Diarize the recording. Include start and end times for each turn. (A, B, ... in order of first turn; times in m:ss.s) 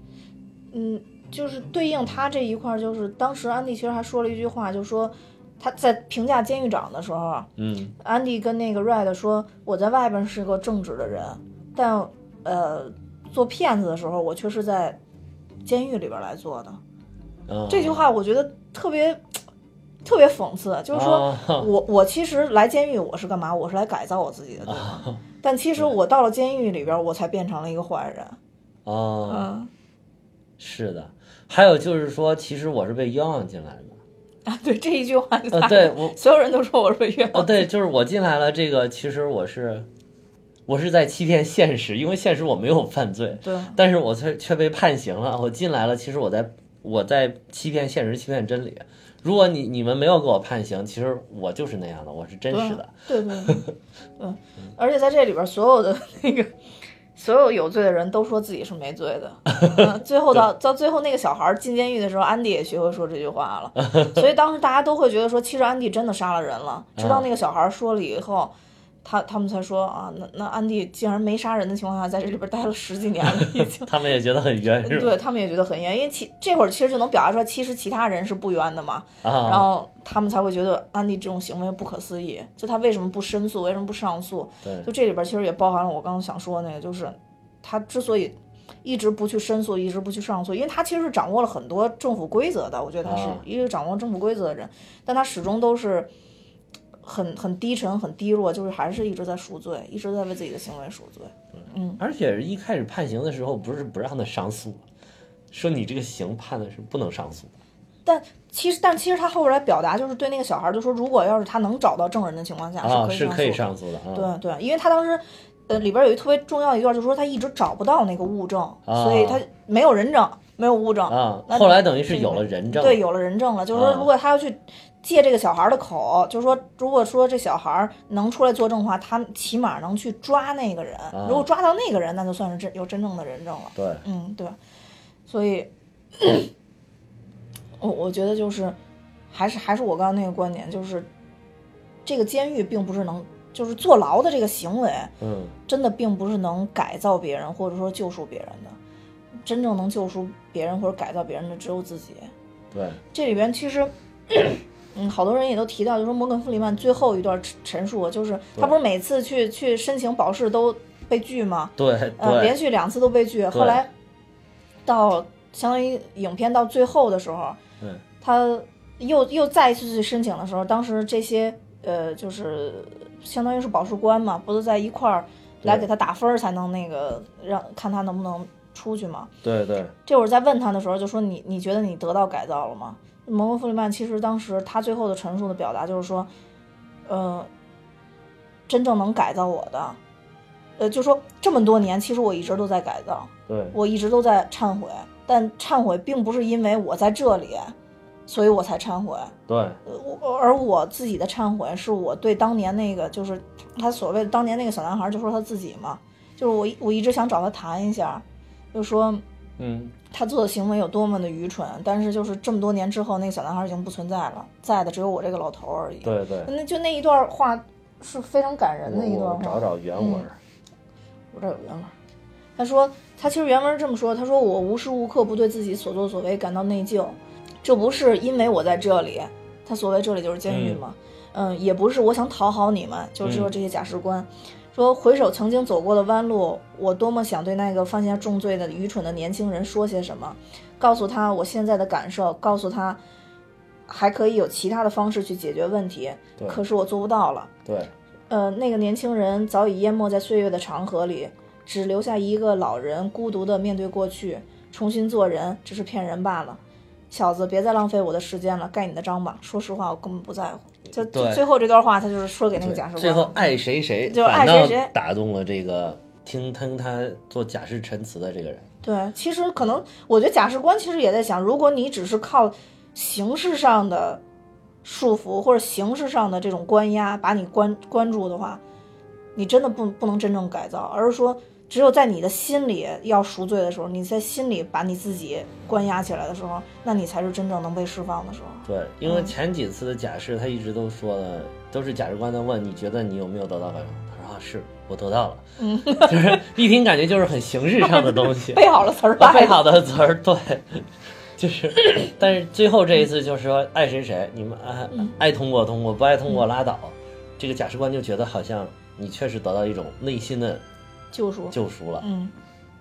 0:00.7-0:15.0 A
0:07.6-0:07.9 B
0:15.7-0:16.8 A
0:17.5-0:18.0 B
0:17.7-0:19.2 A
0:20.0-0:28.4 A
0:20.9-0:21.7 B
0:24.7-0:25.2 B
0:28.8-0:29.5 B
0:29.3-0:29.7 A
0:30.6-0:34.0 B
0:34.5-0:37.7 A
0:35.5-0:36.2 B
0:37.3-0:39.9 B
0:40.7-0:53.7 B
0:43.4-0:43.8 A
0:52.5-0:53.7 A
0:54.2-0:56.5 A
0:57.2-1:08.5 A
0:59.6-0:59.9 B
1:03.9-1:04.2 B
1:07.0-1:07.3 B
1:09.0-1:13.9 A
1:13.4-1:15.2 B
1:14.8-1:36.1 A
1:19.2-1:19.7 B
1:24.6-1:24.9 B
1:33.0-1:33.4 B
1:37.0-1:42.0 A
1:42.0-1:44.8 B
1:45.5-1:47.5 B
1:48.1-2:14.6 A
1:52.8-1:54.3 B
1:58.9-1:59.4 B
2:01.1-2:03.0 B
2:03.7-2:04.1 B
2:11.1-2:11.5 B
2:13.8-2:14.0 B
2:15.3-2:16.5 A
2:17.8-2:18.8 A
2:19.3-2:21.1 A
2:22.1-2:25.1 A
2:25.2-2:25.6 B
2:25.7-2:28.8 A
2:29.4-2:32.3 A
2:32.7-2:33.0 B
2:33.1-2:43.9 A
2:41.8-2:42.6 B
2:43.5-2:43.8 B
2:44.9-2:47.6 A
2:48.2-2:59.3 A
2:59.4-2:59.9 B
3:00.1-3:06.3 A
3:07.1-3:07.5 A
3:08.7-3:10.0 A
3:10.8-3:17.8 A
3:13.5-3:13.8 B
3:18.3-3:29.2 A
3:19.5-3:19.8 B
3:29.6-3:30.0 B
3:30.1-3:40.3 A
3:36.0-3:36.5 B
3:38.9-3:40.4 B
3:41.3-3:41.9 A
3:42.6-4:03.0 A
3:50.5-3:50.8 B
3:53.2-3:53.5 B
4:03.9-4:07.5 A
4:07.7-4:07.9 B
4:08.3-4:16.6 A
4:17.1-4:23.5 A
4:21.1-4:21.4 B
4:22.6-4:28.6 B
4:24.0-4:24.9 A
4:28.8-4:34.2 A
4:34.8-4:38.6 A
4:39.4-4:49.3 A
4:48.7-5:00.9 B
4:55.6-4:56.5 A
4:57.8-4:59.7 A
5:01.4-5:10.6 B
5:11.1-5:12.3 A
5:11.5-5:12.1 B